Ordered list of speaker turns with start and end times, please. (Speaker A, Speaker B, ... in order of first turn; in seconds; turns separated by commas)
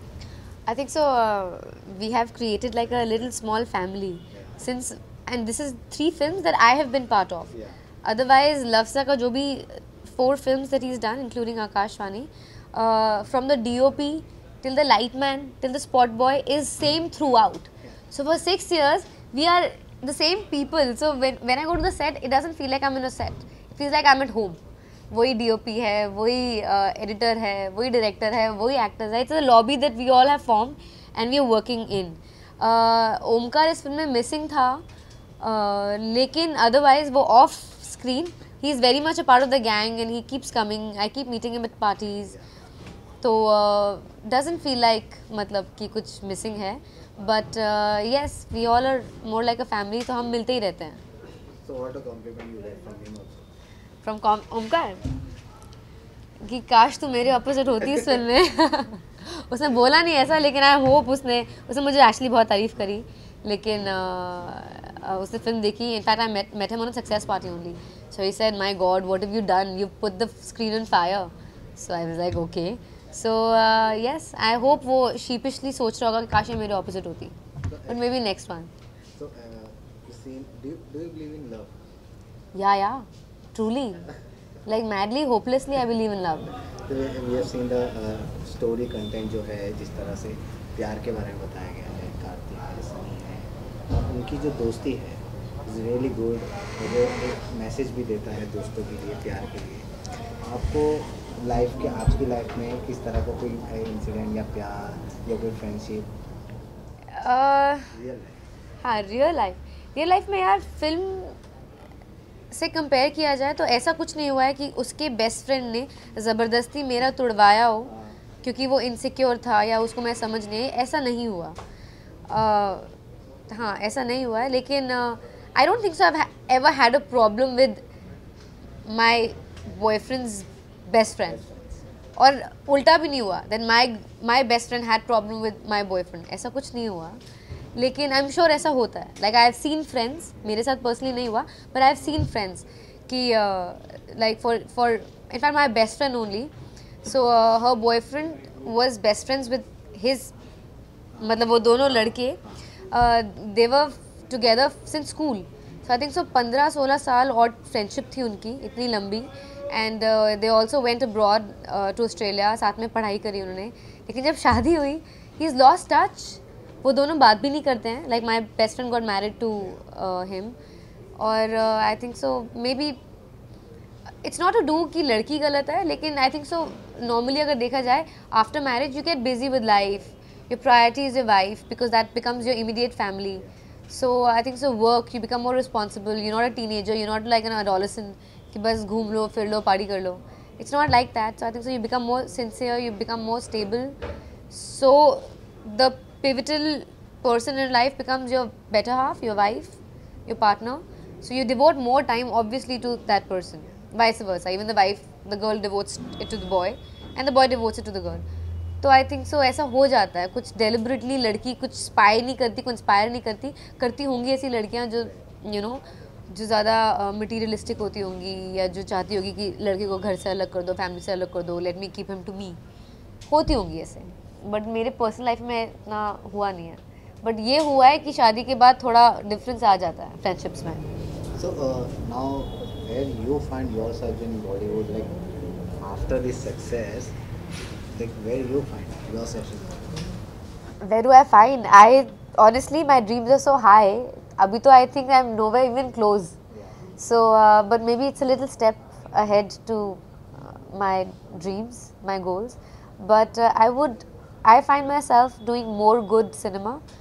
Speaker A: 0.7-7.5, Speaker B: 4.3-4.6, Speaker A: 8.0-34.8, Speaker A: 35.4-42.4, Speaker A: 43.2-51.0, Speaker B: 51.6-53.5, Speaker A: 54.0-55.0, Speaker A: 56.4-77.4, Speaker B: 77.7-78.2, Speaker A: 77.9-78.7, Speaker B: 79.2-81.8, Speaker A: 82.5-84.1, Speaker A: 84.7-86.5, Speaker B: 86.8-99.9, Speaker B: 100.4-106.1, Speaker A: 107.1-108.0, Speaker B: 107.9-108.4, Speaker A: 108.8-111.3, Speaker A: 112.5-117.9, Speaker B: 117.8-118.2, Speaker A: 118.4-121.6, Speaker A: 122.3-122.9, Speaker A: 123.5-127.8, Speaker A: 128.8-131.4, Speaker B: 131.2-131.8, Speaker A: 132.2-137.2, Speaker A: 137.8-146.5, Speaker A: 147.0-150.3, Speaker B: 151.1-152.6, Speaker A: 151.2-170.6, Speaker A: 171.2-173.0, Speaker A: 174.2-194.0, Speaker A: 194.5-208.2, Speaker A: 208.8-222.6, Speaker A: 223.3-230.8, Speaker B: 231.3-235.2, Speaker B: 235.8-237.2, Speaker B: 237.9-239.9, Speaker A: 240.8-246.3, Speaker B: 246.5-246.8, Speaker A: 247.0-256.8